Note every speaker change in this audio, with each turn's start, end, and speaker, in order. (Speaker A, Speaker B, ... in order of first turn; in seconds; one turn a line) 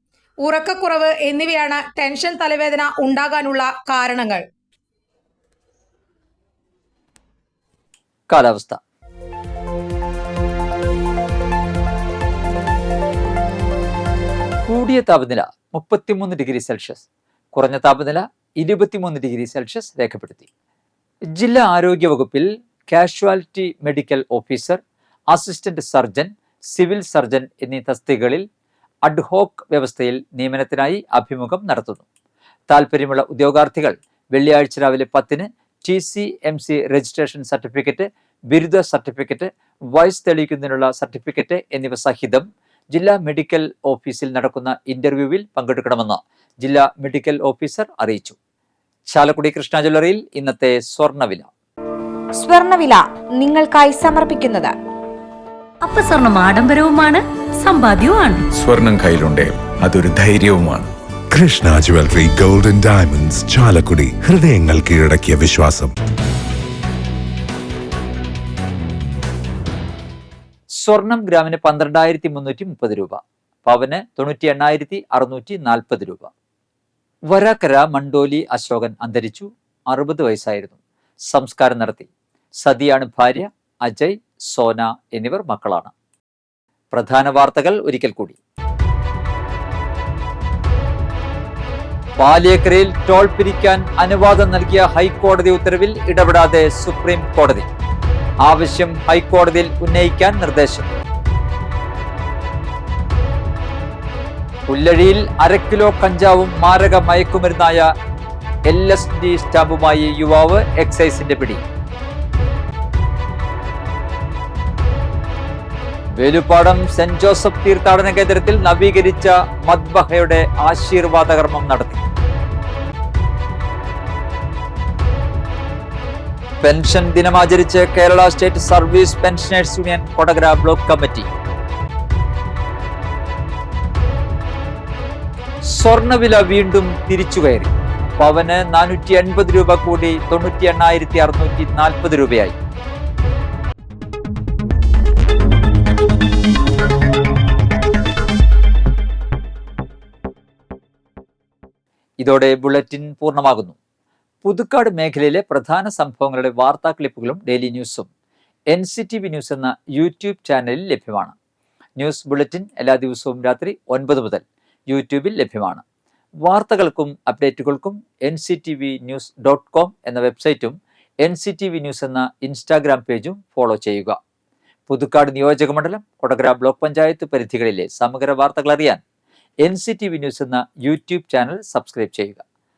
Speaker A: 0.4-4.4
Speaker B: 8.3-8.8
Speaker B: 14.7-20.5
Speaker B: 21.4-24.8
Speaker B: 25.3-28.4
Speaker B: 29.1-32.0
Speaker B: 32.7-48.4
Speaker B: 49.1-51.5
Speaker C: 52.4-54.7
Speaker D: 55.8-58.4
Speaker E: 58.6-60.9
Speaker F: 61.3-65.9
Speaker E: 61.9-62.4
Speaker B: 70.8-76.3
Speaker B: 77.3-80.8
Speaker B: 81.3-82.1
Speaker B: 82.6-85.9
Speaker B: 86.9-88.4
Speaker B: 92.2-97.7
Speaker B: 98.4-100.9
Speaker B: 104.7-107.9
Speaker B: 108.7-111.6
Speaker B: 116.2-122.0
Speaker B: 126.6-131.3
Speaker B: 135.7-142.6
Speaker B: 152.2-153.8
Speaker B: 154.4-158.1
Speaker B: 158.7-161.3
Speaker B: 162.0-165.8
Speaker B: 166.4-174.2
Speaker B: 174.9-179.0
Speaker B: 179.6-182.4